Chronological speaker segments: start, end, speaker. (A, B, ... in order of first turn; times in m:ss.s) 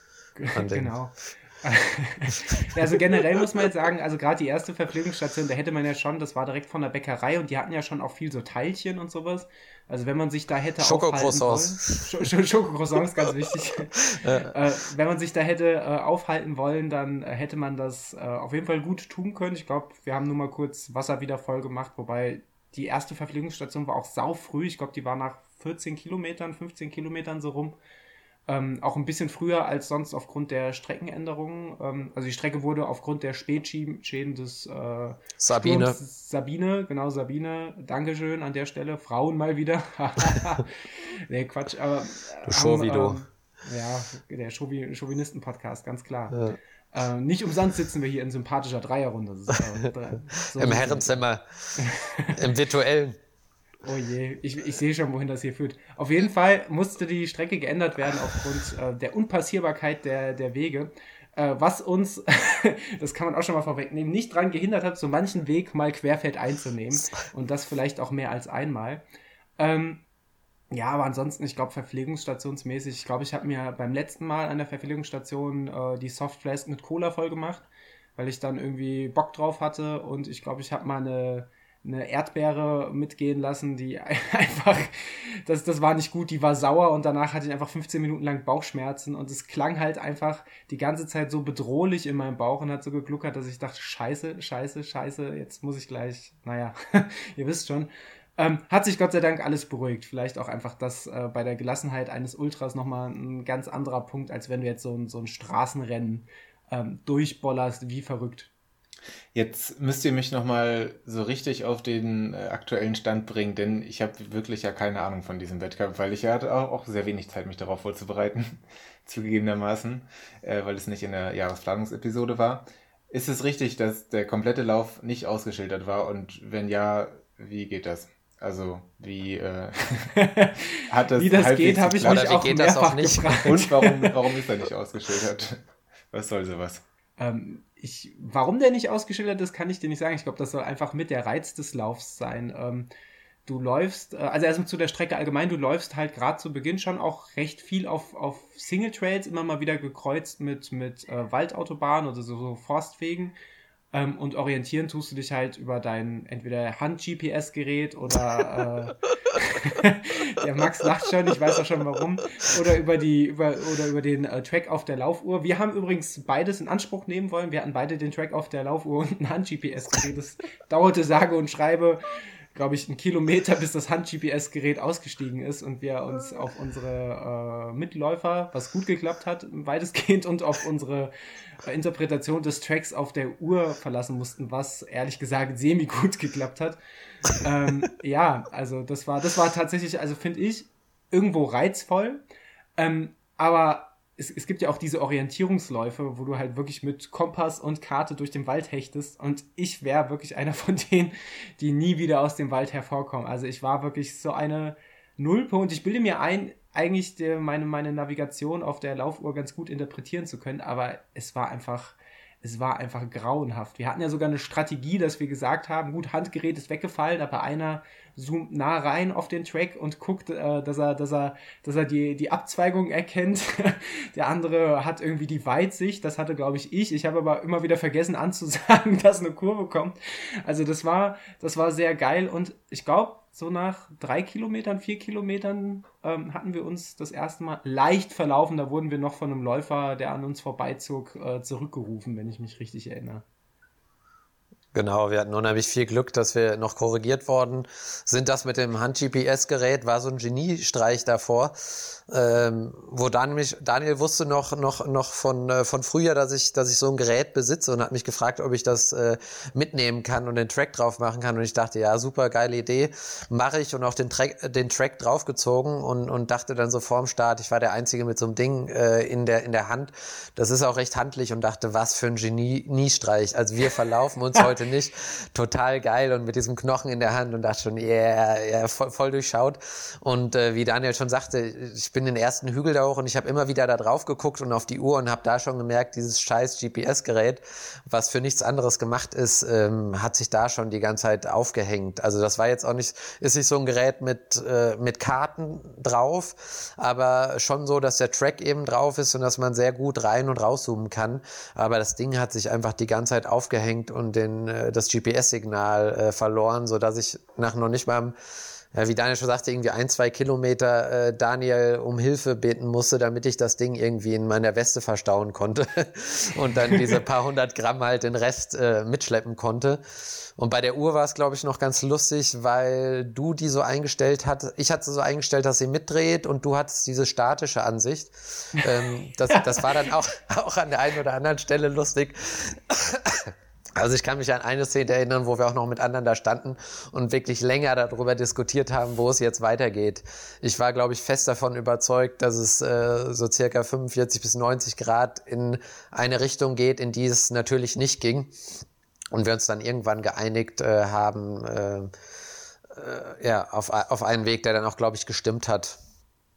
0:00.4-0:27.8 A
0:00.5-0:00.9 B
0:10.8-0:12.1 B
0:14.1-0:14.5 B
0:28.5-0:46.4 A
0:35.4-0:36.0 B
0:42.5-0:43.2 B
0:46.3-0:46.6 B
0:46.9-0:51.2 A
0:50.6-0:51.8 B
0:51.8-0:52.4 A
0:52.3-0:53.2 B
0:53.8-1:09.0 A
1:09.6-1:10.0 A
1:10.7-1:17.7 A
1:18.2-1:48.5 A
1:49.3-2:10.2 C
2:10.1-2:14.2 A
2:10.9-2:12.4 C
2:12.0-2:13.5 B
2:13.4-2:16.8 C
2:17.2-2:22.9 A
2:23.5-2:33.3 A
2:33.9-3:01.1 A
3:01.6-3:12.2 A
3:12.8-4:03.2 A
4:04.7-5:08.2 B
5:08.7-5:51.9 B
5:29.3-5:29.6 A
5:52.7-5:55.8 B